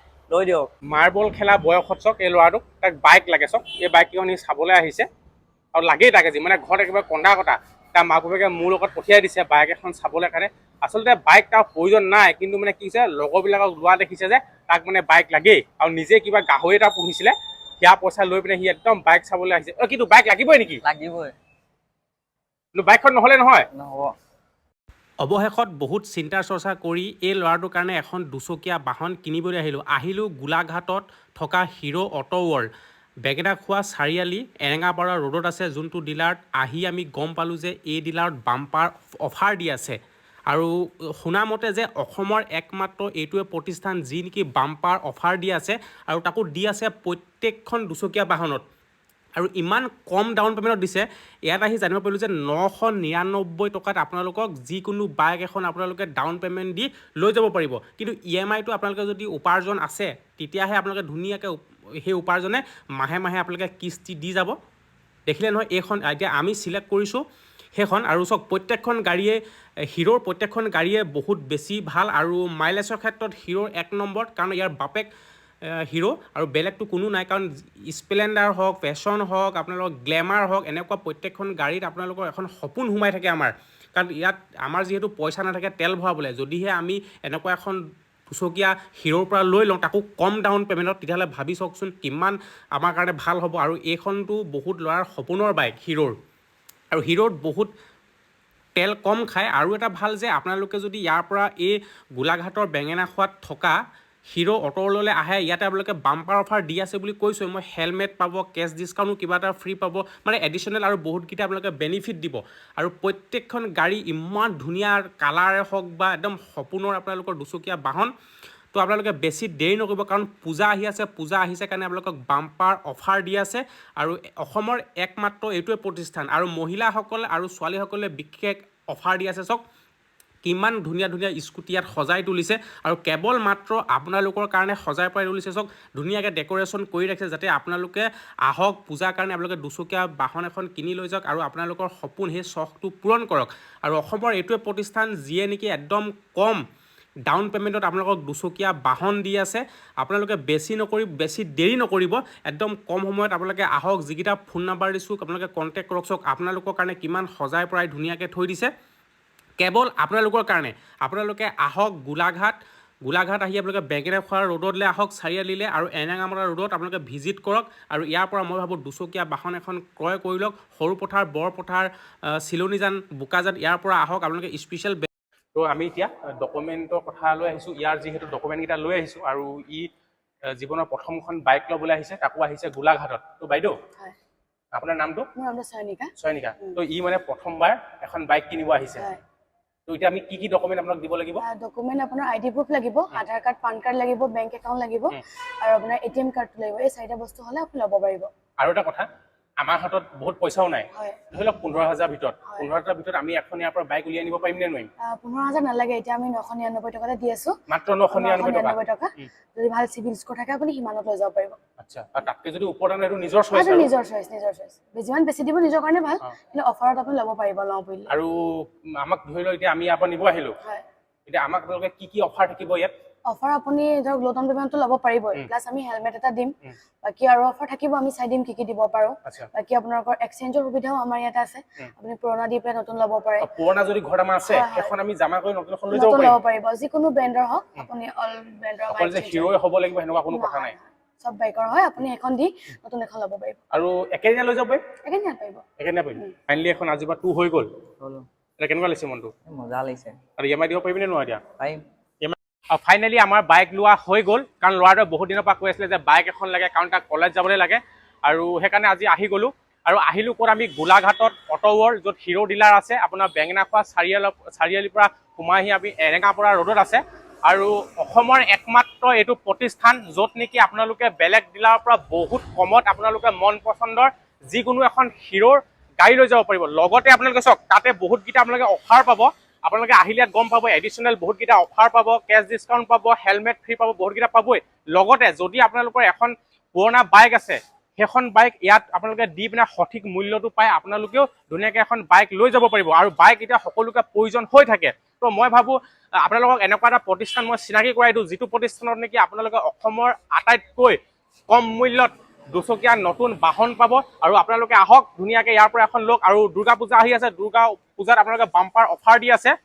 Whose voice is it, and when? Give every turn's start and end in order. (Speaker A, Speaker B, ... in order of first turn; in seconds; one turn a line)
Speaker A: 0.3-0.7
Speaker B: 0.9-5.1
Speaker B: 5.7-20.8
Speaker A: 20.8-21.3
Speaker B: 22.7-23.6
Speaker A: 23.7-24.1
Speaker C: 25.2-32.7
Speaker C: 33.2-40.0
Speaker C: 40.5-48.6
Speaker C: 49.4-64.5
Speaker C: 65.3-67.2
Speaker C: 67.7-69.4
Speaker C: 69.9-75.1
Speaker C: 75.9-87.8
Speaker C: 88.3-96.1
Speaker C: 96.9-97.7
Speaker C: 98.8-103.8
Speaker C: 104.3-118.1
Speaker C: 118.7-129.6
Speaker C: 130.4-146.6
Speaker C: 147.3-158.7
Speaker C: 159.6-175.1
Speaker B: 175.6-179.9
Speaker B: 180.5-183.7
Speaker B: 184.8-185.2
Speaker D: 185.3-186.8
Speaker B: 186.2-189.1
Speaker B: 189.9-191.4
Speaker D: 191.4-198.3
Speaker B: 198.6-199.1
Speaker B: 199.6-204.9
Speaker D: 200.9-201.2
Speaker D: 205.0-207.5
Speaker B: 207.7-209.3
Speaker D: 208.1-211.6
Speaker B: 211.8-213.9
Speaker D: 213.5-218.1
Speaker B: 218.1-220.5
Speaker B: 221.3-222.9
Speaker D: 223.3-233.5
Speaker B: 233.4-236.4
Speaker D: 234.4-234.9
Speaker D: 235.9-239.5
Speaker B: 238.9-240.7
Speaker D: 240.3-243.6
Speaker B: 243.7-244.8
Speaker D: 245.0-245.6
Speaker B: 245.8-247.7
Speaker A: 248.0-248.2
Speaker B: 248.6-249.3
Speaker A: 249.5-250.2
Speaker B: 250.4-251.4
Speaker B: 252.2-309.5